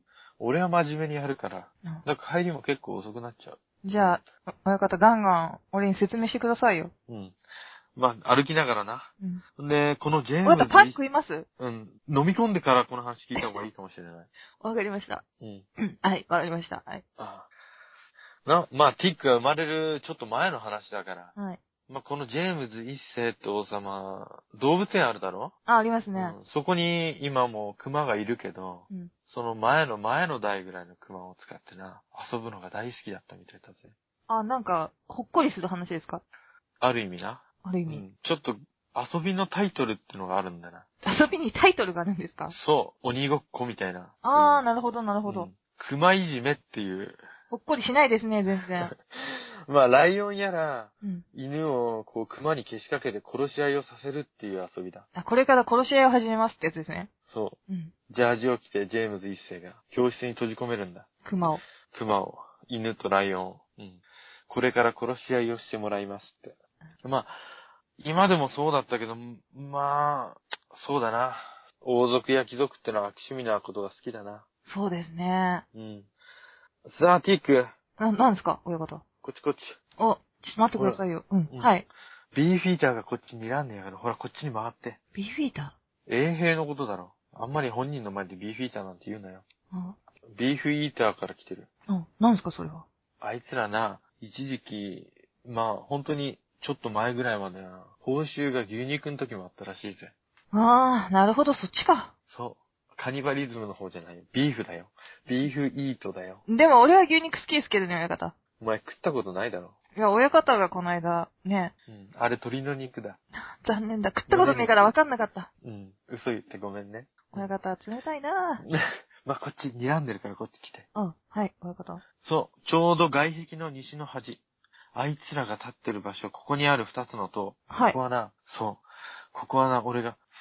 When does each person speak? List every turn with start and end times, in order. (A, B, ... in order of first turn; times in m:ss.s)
0:00.4-0:04.2 A
0:03.8-0:06.9 B
0:07.1-0:07.4 A
0:07.9-0:11.0 A
0:10.4-0:11.5 B
0:11.6-0:14.3 A
0:14.6-0:15.2 B
0:15.4-0:15.6 A
0:15.8-0:17.0 B
0:17.2-0:17.5 A
0:18.4-0:21.3 A
0:21.9-0:25.5 A
0:25.7-0:26.4 B
0:26.1-0:33.9 A
0:34.3-0:36.2 B
0:36.8-0:40.8 A
0:37.6-0:38.0 B
0:41.0-0:42.5 B
0:42.5-0:44.6 A
0:44.2-0:45.5 B
0:45.2-0:47.2 A
0:47.5-0:48.9 B
0:48.8-0:55.0 A
0:55.1-0:57.1 B
0:57.3-0:57.6 A
0:57.7-0:57.9 B
0:58.1-1:01.1 A
1:01.2-1:01.6 B
1:01.9-1:07.4 A
1:08.0-1:14.4 A
1:14.7-1:15.6 B
1:15.7-1:16.1 A
1:16.8-1:17.7 A
1:18.0-1:19.0 B
1:19.2-1:19.8 A
1:20.0-1:21.8 B
1:20.8-1:21.7 A
1:22.3-1:25.0 A
1:25.1-1:25.7 B
1:26.1-1:29.4 A
1:29.7-1:30.0 B
1:30.3-1:31.7 A
1:31.9-1:32.8 B
1:33.2-1:40.1 A
1:40.5-1:42.1 B
1:42.3-1:46.4 A
1:46.5-1:48.3 B
1:48.6-1:49.7 A
1:49.9-1:51.7 B
1:51.9-1:53.2 A
1:53.4-1:55.5 B
1:54.3-1:54.9 A
1:55.6-1:57.5 A
1:57.3-1:58.6 B
1:58.7-2:00.9 A
2:00.9-2:02.0 B
2:02.2-2:04.4 A
2:04.9-2:10.2 A
2:07.7-2:08.0 B